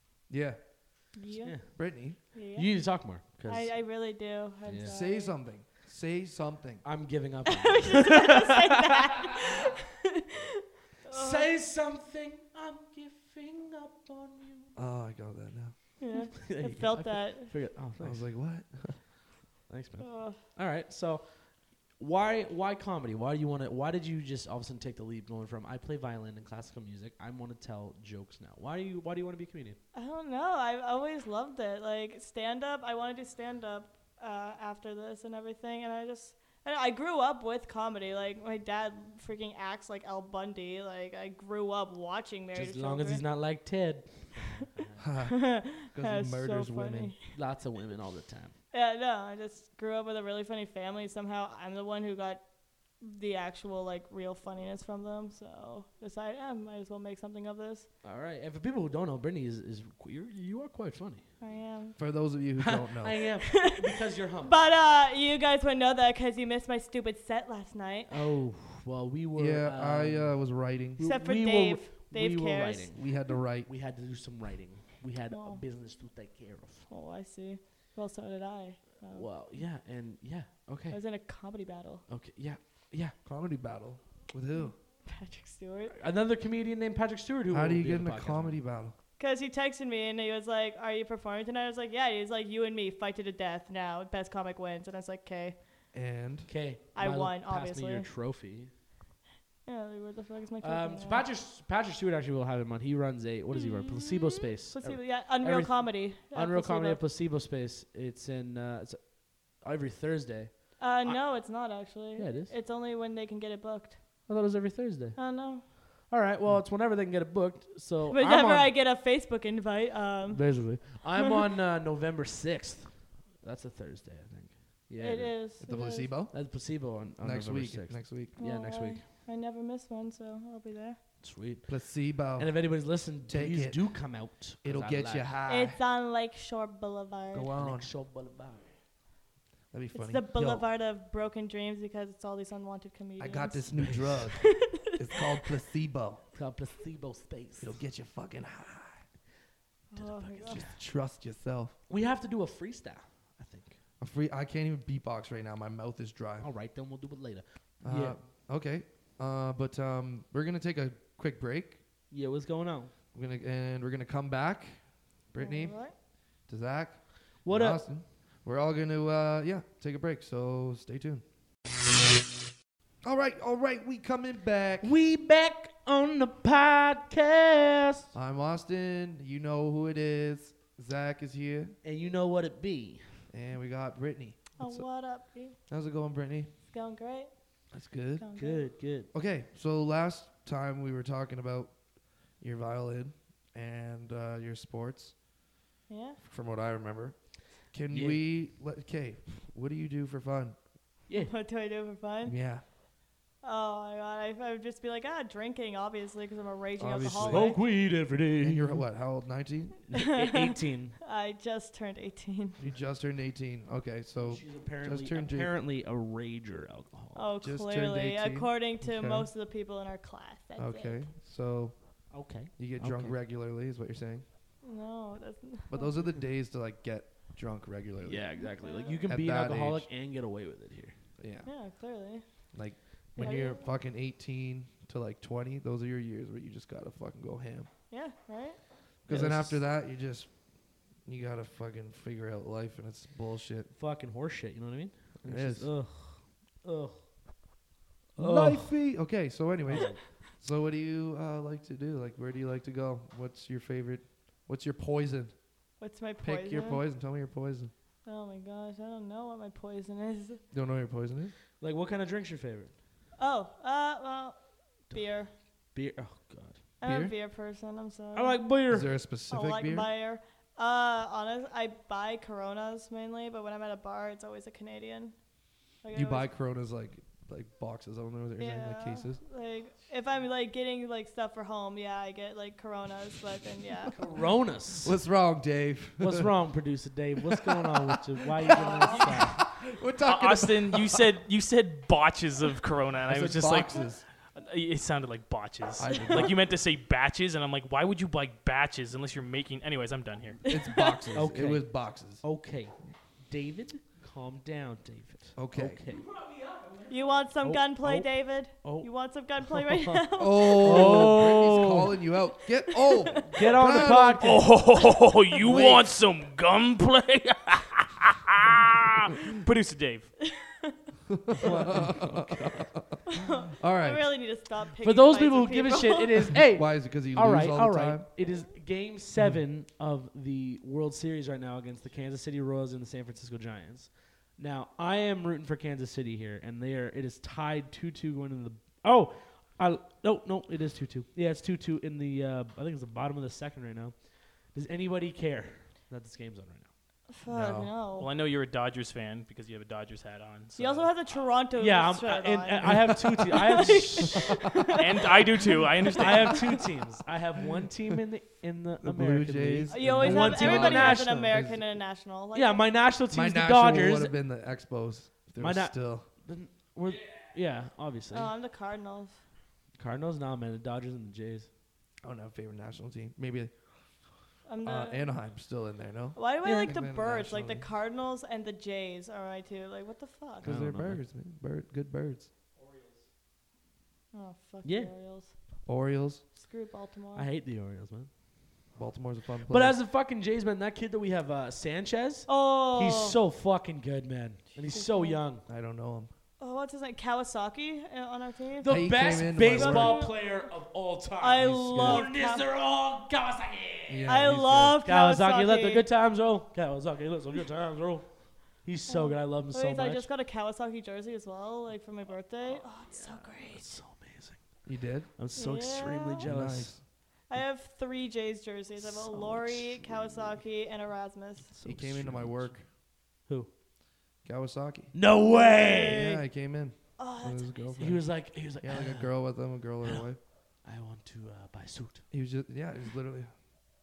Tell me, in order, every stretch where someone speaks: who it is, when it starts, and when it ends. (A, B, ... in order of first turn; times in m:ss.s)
0:00.3-0:01.2 A
0:01.1-0:01.8 B
0:01.4-0:01.8 C
0:01.7-0:02.2 A
0:02.3-0:05.4 B
0:02.3-0:03.8 C
0:04.7-0:05.0 C
0:04.9-0:06.8 A
0:06.8-0:08.8 C
0:07.5-0:09.7 B
0:11.0-0:11.5 B
0:11.1-0:14.8 C
0:14.8-0:15.8 A
0:16.0-0:17.5 B
0:16.4-0:18.2 C
0:18.0-0:19.0 A
0:19.7-0:29.8 C
0:20.0-0:20.4 B
0:29.9-0:43.2 B
0:42.5-0:45.1 C
0:45.0-0:47.1 A
0:45.3-0:47.2 B
0:47.3-0:48.6 C
0:48.7-0:52.4 B
0:53.0-0:57.9 B
0:58.0-1:01.2 C
1:01.4-1:02.0 B
1:02.0-1:03.2 A
1:02.6-1:04.6 C
1:03.5-1:03.8 B
1:04.4-1:08.3 B
1:08.1-1:16.9 C
1:09.4-1:11.0 A
1:11.0-1:12.9 B
1:12.9-1:13.7 A
1:15.3-1:15.6 B
1:16.9-1:19.3 B
1:19.0-1:21.0 C
1:20.9-1:22.0 B
1:22.1-1:23.2 C
1:23.2-1:24.8 A
1:24.6-1:25.9 B
1:25.9-1:28.6 C
1:27.5-1:29.0 A
1:29.2-1:35.6 B
1:35.9-1:36.5 A
1:36.5-1:38.7 C
1:37.0-1:38.1 B
1:39.6-1:41.3 B
1:40.6-1:51.2 C
1:43.6-1:47.0 B
1:50.8-1:54.3 B
1:52.2-1:52.5 C
1:54.3-1:58.7 C
1:55.2-1:55.7 B
1:58.1-2:01.4 B
2:00.3-2:05.4 C
2:05.0-2:06.1 B
2:05.6-2:06.4 A
2:06.3-2:09.0 C
2:07.2-2:08.3 A
2:08.4-2:11.0 B
2:11.2-2:15.3 C
2:11.7-2:14.1 A
2:14.6-2:15.8 A
2:15.5-2:17.5 B
2:17.3-2:17.9 A
2:17.6-2:18.7 C
2:19.7-2:20.6 A
2:19.9-2:25.2 B
2:23.2-2:26.2 A
2:23.8-2:24.3 C
2:26.4-2:27.8 C
2:27.6-2:29.0 A
2:29.9-2:30.7 B
2:30.0-2:30.8 C
2:30.5-2:31.8 A
2:31.9-2:33.8 C
2:34.0-2:36.5 A
2:36.4-2:38.2 C
2:37.8-2:41.8 A
2:42.1-2:42.9 C
2:43.1-2:45.9 A
2:45.4-2:45.9 B
2:46.4-2:51.2 A
2:47.4-2:47.8 C
2:53.0-2:54.9 A
2:54.8-2:58.1 C
2:58.1-3:01.8 A
3:01.8-3:03.2 C
3:03.3-3:04.9 A
3:04.6-3:05.6 B
3:05.7-3:06.5 A
3:06.7-3:07.3 B
3:07.7-3:08.3 A
3:08.2-3:08.7 B
3:08.4-3:09.1 C
3:09.1-3:15.2 A
3:15.9-3:16.2 B
3:16.2-3:20.6 A
3:17.9-3:18.2 C
3:21.1-3:21.3 C
3:21.2-3:22.4 B
3:22.2-3:22.6 A
3:23.4-3:27.6 B
3:26.8-3:27.8 A
3:27.1-3:28.9 C
3:28.4-3:29.8 A
3:29.9-3:31.0 C
3:31.0-3:32.6 B
3:32.6-3:35.5 A
3:34.2-3:37.3 C
3:37.2-3:41.1 B
3:37.4-3:39.3 A
3:40.6-3:44.2 A
3:42.1-3:43.2 C
3:44.6-3:46.0 B
3:45.7-3:48.4 A
3:48.0-3:51.0 C
3:48.4-3:49.0 B
3:49.0-3:49.9 A
3:51.2-3:51.5 A
3:51.4-3:52.2 B
3:52.5-3:57.7 A
3:53.2-3:53.6 C
3:53.2-3:53.7 B
3:57.9-3:58.6 B
3:59.1-4:00.4 A
3:59.1-3:59.6 C
4:01.0-4:03.7 A
4:03.8-4:07.5 C
4:05.2-4:05.7 A
4:08.2-4:08.8 C
4:08.2-4:15.4 A
4:09.6-4:10.0 C
4:15.8-4:16.8 B
4:16.2-4:17.7 A
4:18.0-4:20.4 B
4:20.5-4:21.4 A
4:21.6-4:22.7 C
4:23.2-4:25.3 B
4:24.9-4:25.2 C
4:25.7-4:26.6 C
4:26.8-4:28.4 B
4:26.8-4:27.1 A
4:28.1-4:28.9 C
4:28.7-4:29.9 A
4:29.3-4:35.2 B
4:35.8-4:36.3 B
4:35.9-4:39.2 A
4:38.4-4:44.0 B
4:44.0-4:45.0 C
4:44.8-4:46.3 A
4:46.0-4:49.4 C
4:47.3-4:51.0 A
4:48.5-4:49.1 B
4:50.0-5:00.4 D
4:53.1-4:54.0 A
4:55.8-4:56.4 A
4:55.9-4:56.3 B
5:00.5-5:02.2 A
5:00.5-5:01.1 B
5:01.1-5:02.7 C
5:03.3-5:06.2 C
5:05.4-5:05.8 A
5:06.9-5:11.3 B
5:07.4-5:08.9 C
5:09.5-5:12.0 C
5:10.2-5:14.2 A
5:12.7-5:14.3 B
5:13.3-5:14.4 C
5:14.2-5:20.2 D
5:15.4-5:15.8 A
5:20.3-5:20.8 B
5:21.1-5:23.0 A
5:21.4-5:22.7 C
5:23.2-5:26.3 B
5:23.6-5:24.1 A
5:24.8-5:44.0 C
5:26.3-5:28.1 A
5:44.5-5:46.7 C
5:47.1-5:48.1 B
5:47.3-5:47.7 A
5:48.0-5:50.9 D
5:50.6-5:55.2 B
5:51.6-5:54.3 C
5:52.6-5:54.2 A
5:54.8-5:56.4 D
5:56.0-6:01.4 C
5:58.8-6:01.6 A
5:59.7-6:02.6 B
6:02.3-6:04.2 C
6:03.1-6:06.1 A
6:05.4-6:08.3 C
6:08.1-6:09.2 B
6:09.8-6:11.5 C
6:12.0-6:13.5 A
6:14.5-6:15.1 B
6:14.6-6:17.7 A
6:16.2-6:20.5 B
6:16.4-6:16.8 C
6:20.4-6:21.0 C
6:20.4-6:22.3 A
6:24.1-6:25.3 B
6:24.6-6:24.9 C
6:25.7-6:26.2 A
6:26.4-6:27.3 B
6:27.2-6:28.1 C
6:28.8-6:29.8 A
6:29.5-6:35.4 C
6:32.3-6:33.2 B
6:34.6-6:35.2 B
6:35.5-6:36.1 A
6:36.4-6:38.9 B
6:38.6-6:44.1 C
6:38.6-6:40.1 A
6:39.5-6:40.4 B
6:41.2-6:42.5 B
6:41.4-6:42.1 A
6:43.9-6:44.8 A
6:44.1-6:45.8 B
6:44.8-6:50.1 C
6:48.9-6:53.7 B
6:52.5-6:54.4 C
6:54.6-6:55.1 A
6:55.2-6:56.7 C
6:55.4-6:56.3 B
6:56.2-6:56.8 A
6:57.3-7:01.5 B
6:58.8-7:00.4 C
7:01.5-7:02.6 C
7:01.6-7:02.6 A
7:04.2-7:04.9 A
7:04.9-7:06.2 C
7:05.3-7:06.1 B
7:05.9-7:10.2 A
7:07.0-7:08.0 B
7:07.8-7:09.3 C
7:10.6-7:12.1 C
7:12.1-7:13.3 A